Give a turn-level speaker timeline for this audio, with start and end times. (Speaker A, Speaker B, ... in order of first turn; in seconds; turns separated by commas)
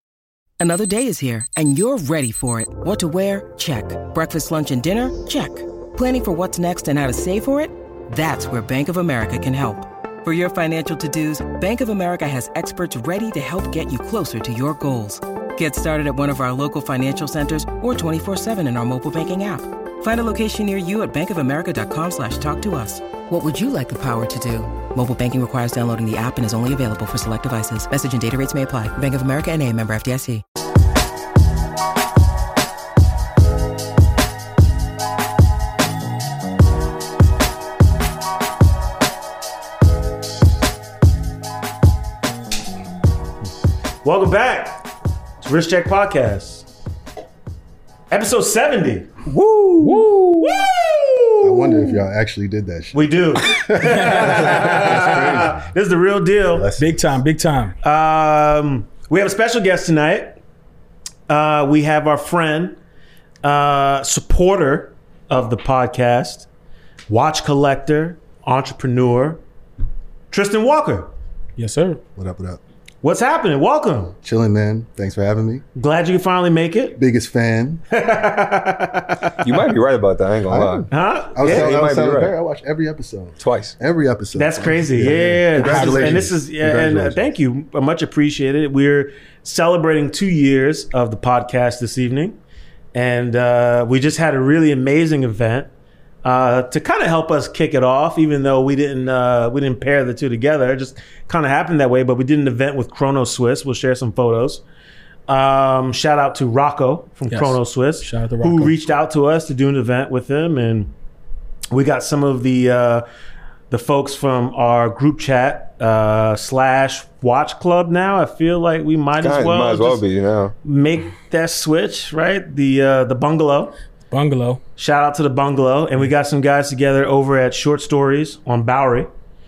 Speaker A: 0.6-30.4, Speaker B: 44.0-44.9, Speaker B: 45.4-46.6, Speaker B: 48.1-52.0, Speaker C: 49.8-50.7, Speaker D: 51.4-55.7, Speaker B: 52.9-56.7, Speaker C: 53.9-55.0, Speaker D: 56.5-57.2, Speaker C: 56.8-57.8, Speaker B: 57.8-60.4, Speaker B: 61.3-62.8, Speaker B: 63.4-66.5, Speaker B: 67.1-69.4, Speaker B: 70.3-71.1, Speaker C: 71.6-72.0, Speaker D: 72.2-72.6, Speaker B: 73.0-74.2, Speaker D: 74.2-75.6, Speaker B: 75.8-77.0, Speaker D: 77.0-77.8, Speaker B: 77.9-79.3, Speaker E: 79.4-80.9, Speaker D: 80.5-87.3, Speaker B: 80.9-81.8, Speaker E: 81.4-82.3, Speaker E: 83.4-83.8, Speaker B: 84.3-92.4, Speaker C: 85.6-86.2, Speaker B: 92.9-95.7, Speaker B: 96.2-104.6, Speaker B: 105.3-110.9, Speaker C: 107.3-108.8, Speaker B: 111.7-113.0, Speaker B: 113.7-120.0, Speaker E: 119.2-120.5, Speaker B: 120.6-123.8, Speaker C: 124.1-124.6, Speaker B: 124.8-129.1